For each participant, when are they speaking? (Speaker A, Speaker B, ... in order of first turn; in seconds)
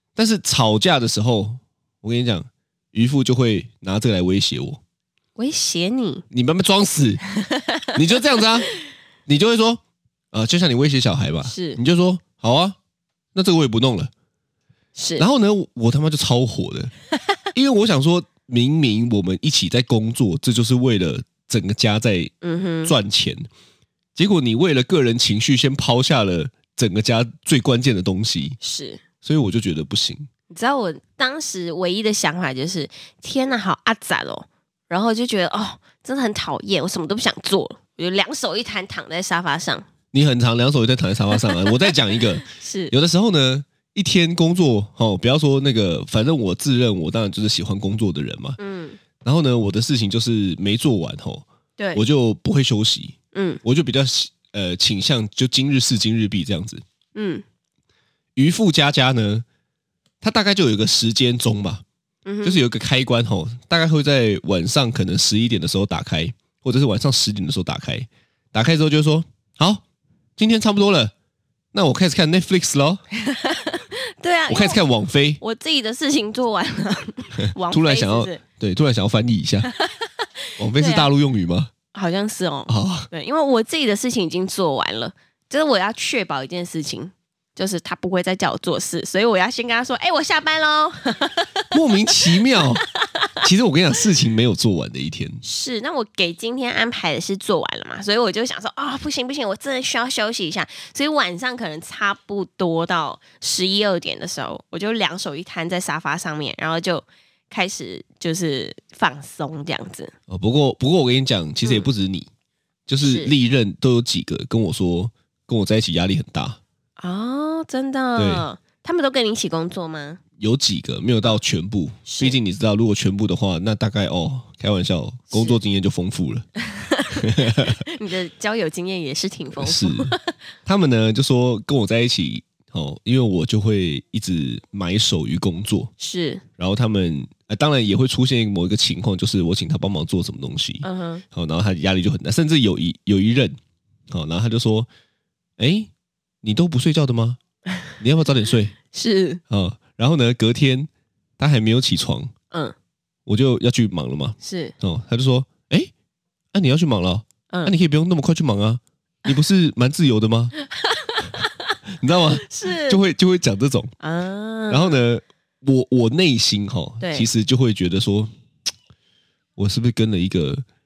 Speaker A: 0.2-4.8, 6.3-7.2, 7.9-8.7, 9.3-9.8, 10.3-12.8, 13.3-14.1, 15.2-16.9, 17.5-22.3, 22.9-23.5, 24.1-28.6, 29.2-30.3, 40.1-48.6, 49.2-56.8, 58.4-59.5, 60.2-61.8, 62.4-69.8, 70.4-71.1, 71.7-73.0, 74.5-75.4, 77.4-79.7, 80.6-81.7, 82.7-83.1, 91.7-92.8, 93.4-95.4, 110.3-112.3, 112.9-116.6, 118.2-118.5, 120.4-126.5, 127.2-127.8, 129.6-135.9, 136.6-143.6, 144.1-144.9, 145.6-145.9, 146.4-147.4, 148.0-148.8, 149.5-152.3, 153.3-155.9, 156.5-160.5, 162.0-163.9, 164.7-168.3, 169.6-170.6
Speaker B: 5.4-6.2, 7.4-8.0, 11.4-11.8, 15.0-15.2, 22.4-22.9, 28.6-29.0, 30.5-39.9, 41.4-42.9, 48.6-49.0, 51.8-52.0, 53.3-53.6, 57.1-57.4, 62.3-62.6, 73.2-74.8, 75.4-78.4, 79.7-81.1, 81.9-91.7, 92.2-93.3, 95.4-110.1, 111.6-111.9, 113.0-113.3, 117.0-120.2, 122.1-122.4, 125.3-125.6, 126.7-130.3, 136.0-136.4, 140.8-141.2, 148.9-149.4, 154.4-154.7, 160.7-161.7, 162.4-163.0, 164.0-165.0, 167.0-167.3